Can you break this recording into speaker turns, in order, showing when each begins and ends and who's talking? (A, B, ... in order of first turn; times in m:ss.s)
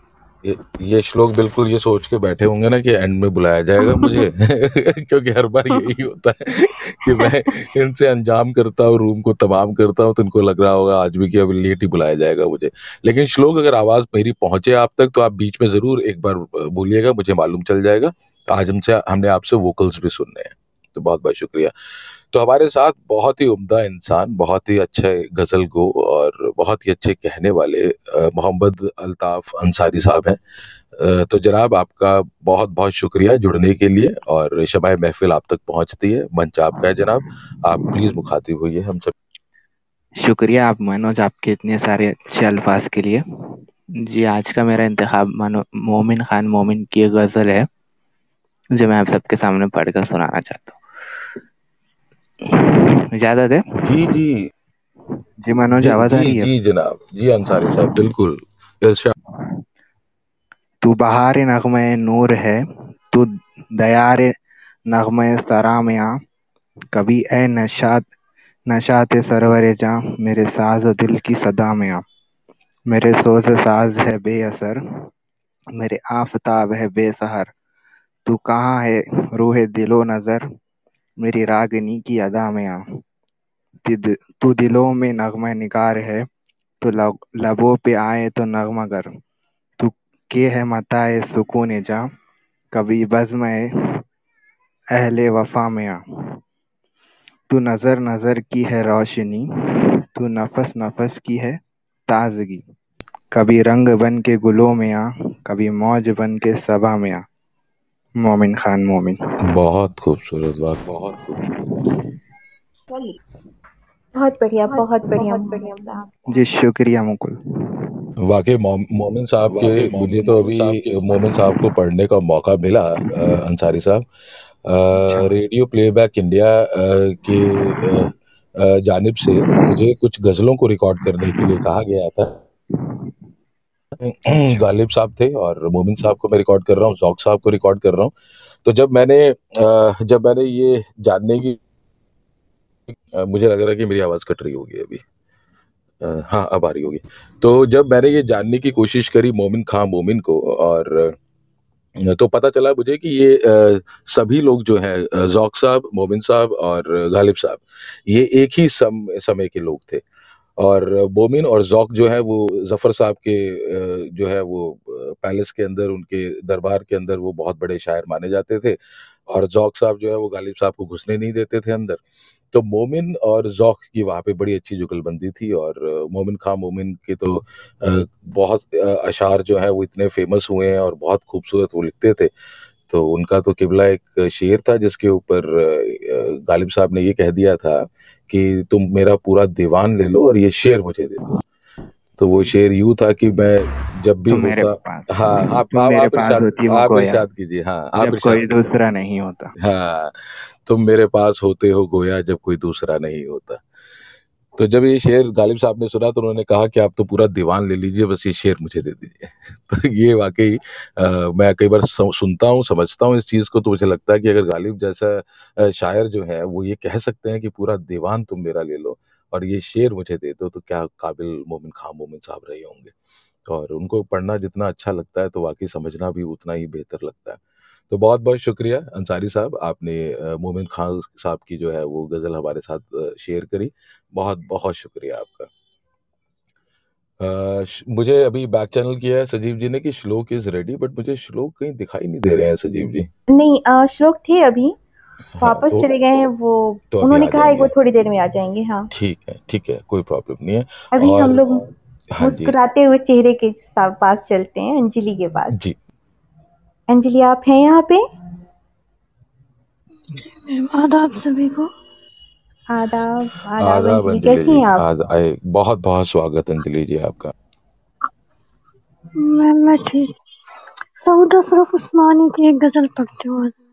0:00.4-0:21.7 A
0:22.3-0:30.4 A
0:31.0-0:39.1 A
0:40.2-0:47.7 B
0:48.8-0:50.8 B
0:52.4-0:53.6 B
0:53.8-0:54.4 A
0:55.5-0:56.5 B
0:55.8-0:59.2 A
1:00.8-1:04.4 B
1:04.9-1:06.2 B
1:06.9-1:08.1 B
1:08.7-1:12.0 B
1:12.9-1:15.1 B
1:15.8-1:17.5 B
1:18.3-1:20.5 B
1:21.2-1:23.0 B
1:23.8-1:26.3 B
1:26.8-1:29.1 B
1:29.8-1:32.1 B
1:32.7-1:34.0 B
1:34.9-1:36.4 B
1:37.5-1:42.6 B
1:43.3-1:47.2 B
1:48.2-1:49.2 B
1:49.4-1:51.9 A
1:54.2-1:56.1 C
1:56.3-1:58.0 B
1:58.2-2:04.0 A
1:59.6-2:00.7 B
2:04.6-2:12.3 A
2:05.0-2:05.3 B
2:09.4-2:09.8 B
2:11.2-2:11.6 B
2:12.8-2:13.1 B
2:14.0-2:18.1 A
2:18.6-2:21.6 A
2:22.9-2:25.0 A
2:26.0-2:31.1 A
2:32.0-2:40.0 A
2:40.6-2:52.0 A
2:52.5-3:02.3 A
3:02.9-3:11.4 A
3:12.2-3:18.6 A
3:14.3-3:17.3 B
3:18.0-3:19.5 B
3:19.6-3:23.6 A
3:24.6-3:42.9 A
3:43.5-3:55.5 A
3:57.2-4:03.1 A
4:03.3-4:04.7 C
4:05.4-4:05.9 A
4:05.4-4:08.9 C
4:06.9-4:07.7 A
4:08.9-4:11.6 A
4:11.0-4:11.6 C
4:12.1-4:12.5 A
4:12.2-4:15.6 C
4:16.9-4:18.0 C
4:20.3-4:21.7 D
4:22.7-4:24.8 C
4:23.6-4:27.3 A
4:29.2-4:30.1 D
4:31.0-4:33.5 D